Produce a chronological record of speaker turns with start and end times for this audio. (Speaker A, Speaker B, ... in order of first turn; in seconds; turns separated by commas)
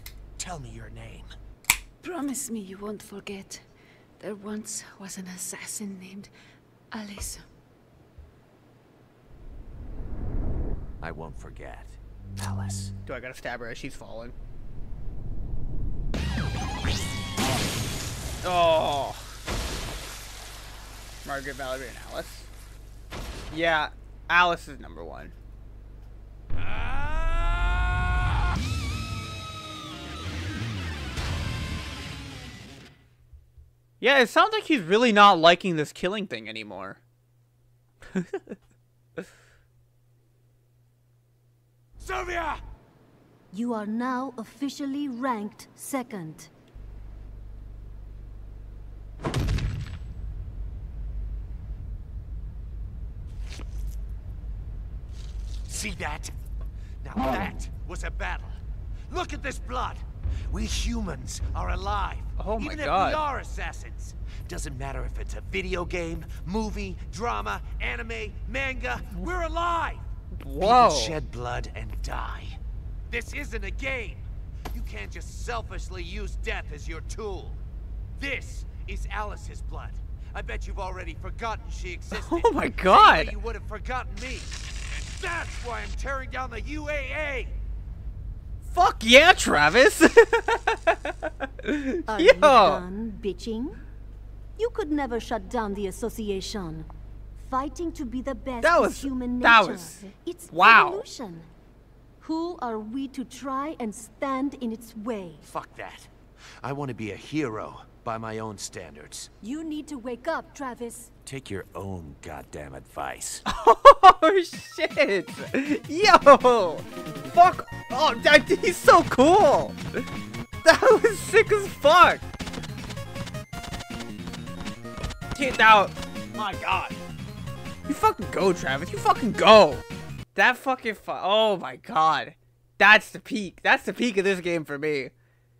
Speaker A: 0.4-1.3, Speaker B: 2.0-3.6, Speaker B: 4.2-6.3, Speaker B: 6.9-7.4, Speaker A: 11.0-12.9, Speaker C: 13.1-14.3, Speaker C: 18.4-19.2, Speaker C: 21.2-22.5, Speaker C: 23.5-25.3, Speaker C: 34.0-37.0, Speaker C: 38.1-38.6, Speaker A: 42.0-42.6, Speaker D: 43.5-46.5, Speaker A: 55.7-56.3, Speaker A: 57.0-58.5, Speaker A: 59.1-70.1, Speaker C: 62.4-63.2, Speaker C: 70.4-71.2, Speaker A: 70.6-72.6, Speaker A: 73.1-77.6, Speaker A: 78.2-87.5, Speaker C: 82.1-83.3, Speaker C: 88.7-92.8, Speaker D: 92.1-93.8, Speaker D: 94.6-101.5, Speaker C: 98.6-101.1, Speaker D: 102.2-105.4, Speaker A: 105.4-109.3, Speaker D: 109.4-111.1, Speaker A: 111.2-113.4, Speaker C: 113.5-119.8, Speaker C: 120.6-122.2, Speaker C: 125.3-127.0, Speaker C: 127.9-129.8, Speaker C: 130.3-135.1